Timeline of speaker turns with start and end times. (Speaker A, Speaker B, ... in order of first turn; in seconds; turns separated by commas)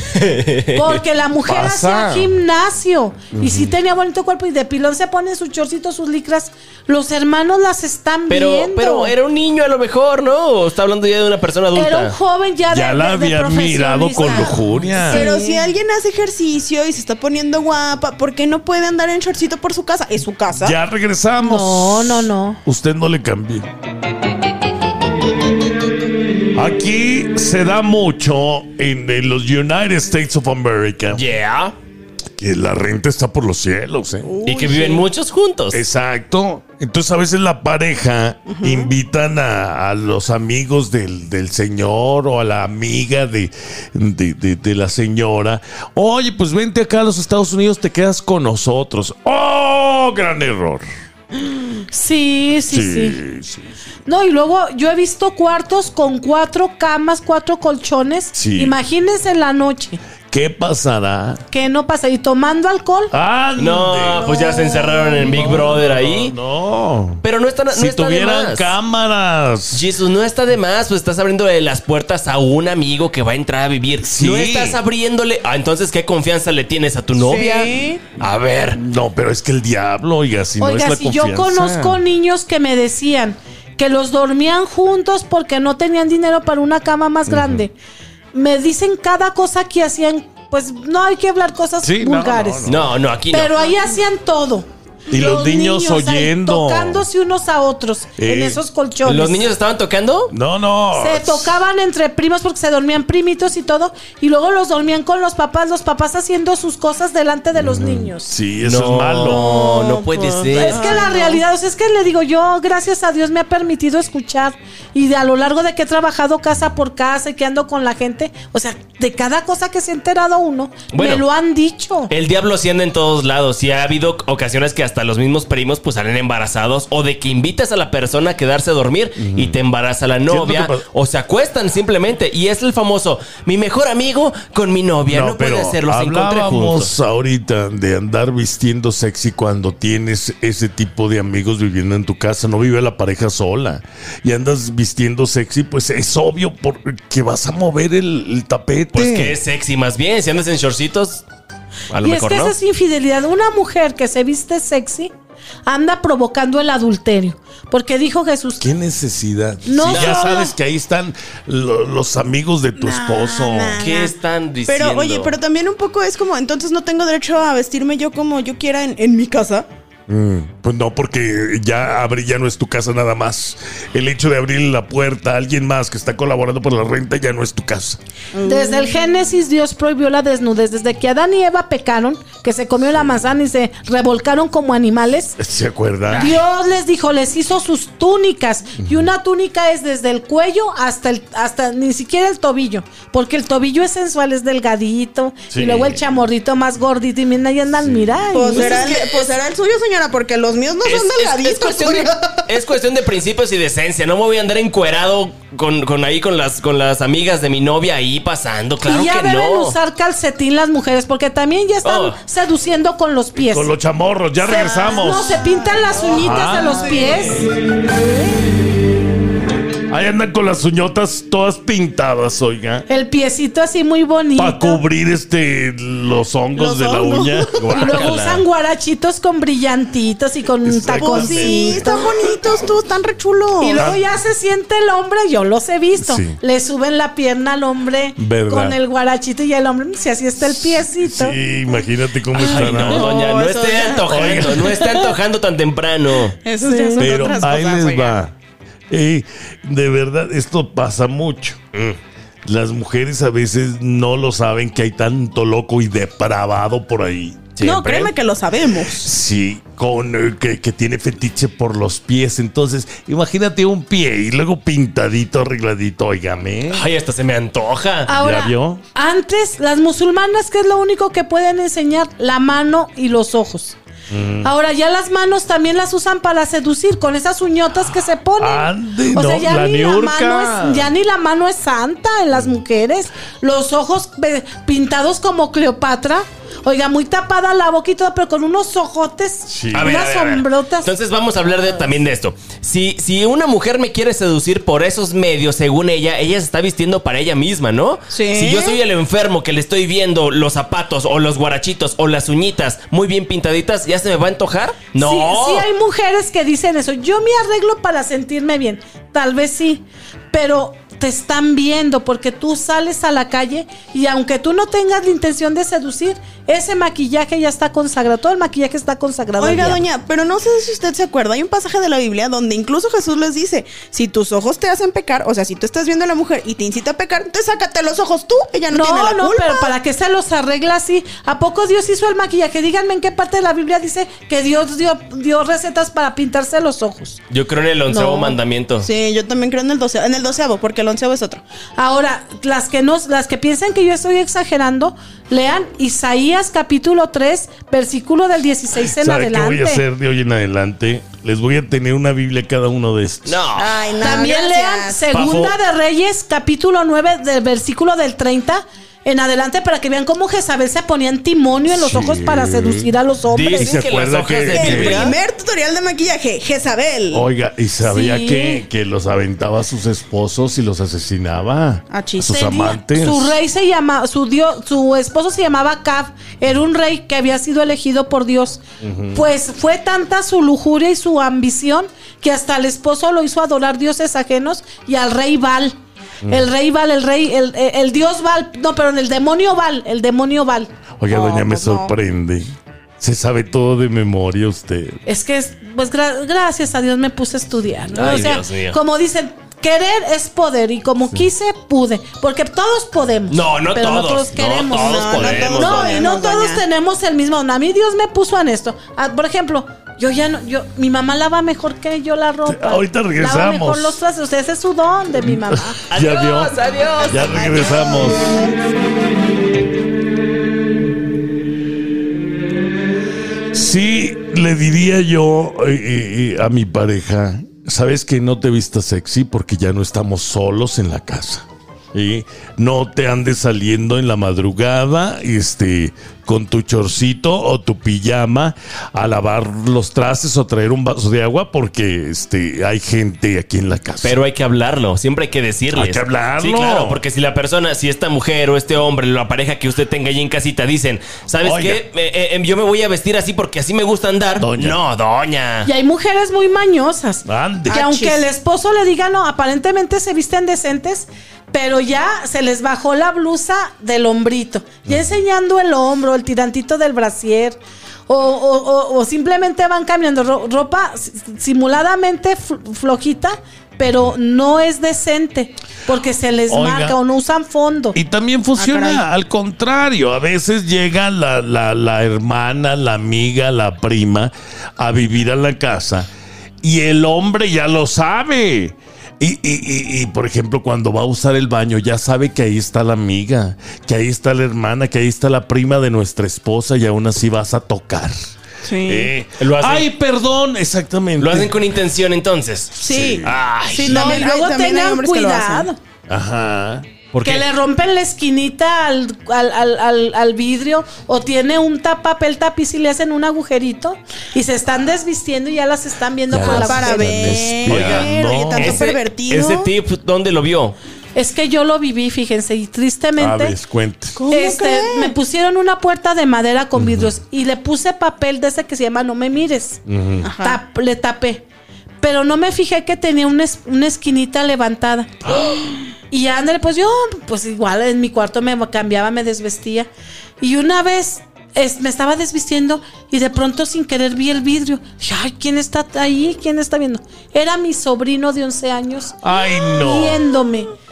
Speaker A: 0.1-1.0, Speaker B: 0.7-9.1, Speaker C: 1.4-2.4, Speaker C: 3.3-3.7, Speaker A: 8.3-12.2, Speaker B: 11.7-15.7, Speaker C: 12.7-15.3, Speaker D: 15.0-20.8, Speaker C: 20.6-23.7, Speaker B: 21.4-22.6, Speaker C: 26.6-31.2, Speaker A: 31.1-31.7, Speaker C: 32.4-34.3, Speaker D: 34.2-35.1, Speaker A: 34.4-35.8, Speaker C: 35.7-50.9, Speaker D: 38.5-38.9, Speaker B: 51.9-53.2, Speaker C: 52.7-53.7, Speaker B: 54.1-60.0, Speaker C: 58.3-58.8, Speaker C: 60.3-61.4, Speaker B: 61.5-63.1, Speaker C: 63.1-64.4, Speaker A: 63.6-66.3, Speaker C: 65.2-69.8, Speaker A: 67.2-68.7, Speaker A: 69.7-78.8, Speaker C: 74.0-74.8, Speaker D: 77.2-78.0, Speaker C: 78.8-82.0, Speaker B: 80.6-87.7, Speaker C: 87.3-87.7, Speaker B: 88.3-92.8, Speaker C: 91.8-92.8, Speaker A: 92.7-93.7, Speaker B: 93.3-99.5, Speaker C: 95.1-97.1, Speaker C: 98.2-98.6, Speaker A: 99.0-100.3, Speaker C: 100.3-101.5, Speaker B: 100.9-108.3, Speaker C: 107.6-109.4, Speaker A: 108.6-111.0, Speaker D: 109.3-111.4, Speaker B: 110.5-122.1, Speaker A: 120.9-121.2, Speaker A: 122.1-136.9, Speaker C: 129.2-129.6, Speaker C: 130.3-130.9, Speaker C: 135.1-149.4, Speaker A: 148.9-151.2, Speaker A: 151.9-152.5, Speaker B: 152.0-155.1, Speaker B: 155.7-158.7, Speaker C: 158.6-163.8, Speaker B: 159.6-160.5, Speaker A: 159.9-160.5, Speaker D: 162.8-164.1, Speaker A: 163.8-165.4, Speaker D: 164.7-169.7, Speaker C: 170.1-178.0, Speaker D: 178.3-178.9, Speaker B: 178.4-185.4, Speaker C: 185.4-186.4, Speaker A: 186.1-186.4, Speaker B: 186.1-198.9, Speaker C: 188.8-189.1, Speaker C: 195.5-196.0, Speaker C: 197.8-198.7, Speaker D: 198.3-202.5, Speaker A: 198.7-199.3, Speaker A: 200.8-209.8, Speaker B: 208.8-213.7, Speaker A: 211.8-212.2, Speaker C: 213.4-215.4, Speaker B: 214.4-217.5, Speaker D: 214.5-217.4, Speaker C: 216.1-216.9, Speaker C: 219.9-222.9, Speaker B: 222.9-224.8, Speaker C: 224.4-228.1, Speaker D: 226.6-227.6, Speaker A: 227.6-228.4, Speaker B: 227.7-232.1, Speaker C: 230.6-232.1, Speaker D: 231.0-233.9, Speaker B: 233.6-241.4, Speaker C: 233.8-234.1, Speaker C: 236.0-236.4, Speaker C: 238.2-238.8, Speaker C: 240.4-243.2, Speaker A: 242.3-246.4, Speaker D: 242.4-244.7, Speaker C: 244.0-245.1, Speaker D: 246.4-248.2, Speaker B: 246.6-247.3, Speaker C: 247.0-248.3, Speaker C: 248.9-251.6, Speaker C: 252.5-258.1, Speaker A: 257.6-258.0, Speaker D: 257.6-259.1, Speaker C: 258.9-266.8, Speaker A: 266.7-268.1, Speaker B: 268.1-273.8, Speaker C: 268.1-268.8, Speaker C: 274.1-274.5, Speaker B: 274.4-290.9, Speaker C: 278.4-280.9, Speaker C: 289.5-290.0, Speaker A: 289.7-305.7, Speaker D: 298.1-298.8, Speaker B: 305.0-319.8, Speaker D: 319.4-329.7, Speaker B: 328.7-337.2, Speaker A: 337.3-338.9, Speaker B: 337.9-338.4, Speaker D: 338.8-341.4, Speaker B: 341.8-349.8, Speaker C: 348.8-353.4, Speaker A: 353.2-353.9, Speaker D: 353.6-355.1, Speaker B: 354.0-363.8, Speaker C: 355.1-355.6, Speaker C: 361.7-362.9, Speaker A: 363.3-365.2, Speaker C: 363.5-365.1, Speaker D: 364.5-367.3, Speaker C: 367.1-373.3, Speaker B: 367.8-368.6, Speaker D: 371.9-372.4, Speaker B: 372.3-378.6, Speaker C: 378.8-379.2, Speaker B: 379.1-390.7, Speaker C: 386.2-386.5, Speaker C: 391.0-395.0, Speaker D: 391.1-391.9, Speaker B: 395.1-415.8, Speaker A: 397.9-398.8, Speaker A: 403.3-406.1, Speaker D: 404.7-406.6, Speaker C: 412.5-414.0, Speaker C: 415.2-418.4, Speaker A: 415.9-417.6, Speaker D: 417.2-418.4, Speaker C: 423.5-444.2, Speaker A: 444.0-455.7, Speaker C: 445.7-447.0, Speaker C: 451.4-451.8, Speaker C: 454.4-454.8, Speaker B: 455.6-478.0, Speaker C: 457.2-457.8, Speaker D: 457.7-458.3, Speaker C: 464.9-465.1, Speaker C: 476.5-477.0, Speaker C: 477.9-486.1, Speaker D: 478.6-479.1, Speaker C: 486.6-498.1, Speaker D: 498.6-499.1, Speaker C: 498.8-501.6, Speaker A: 499.4-499.9, Speaker A: 501.2-504.3, Speaker C: 502.8-503.4, Speaker D: 502.8-505.7, Speaker B: 503.8-505.8, Speaker C: 506.1-506.9, Speaker A: 507.1-507.5, Speaker B: 507.2-517.4, Speaker C: 516.3-518.9, Speaker D: 516.4-519.7, Speaker A: 517.6-520.8, Speaker B: 521.1-523.6, Speaker C: 523.2-524.2, Speaker D: 524.2-525.1, Speaker B: 524.3-529.8, Speaker C: 526.8-527.1, Speaker C: 529.9-530.3, Speaker D: 530.2-530.6, Speaker B: 530.4-531.5, Speaker B: 532.0-535.5, Speaker B: 536.1-539.9, Speaker B: 540.4-550.7, Speaker C: 549.2-550.2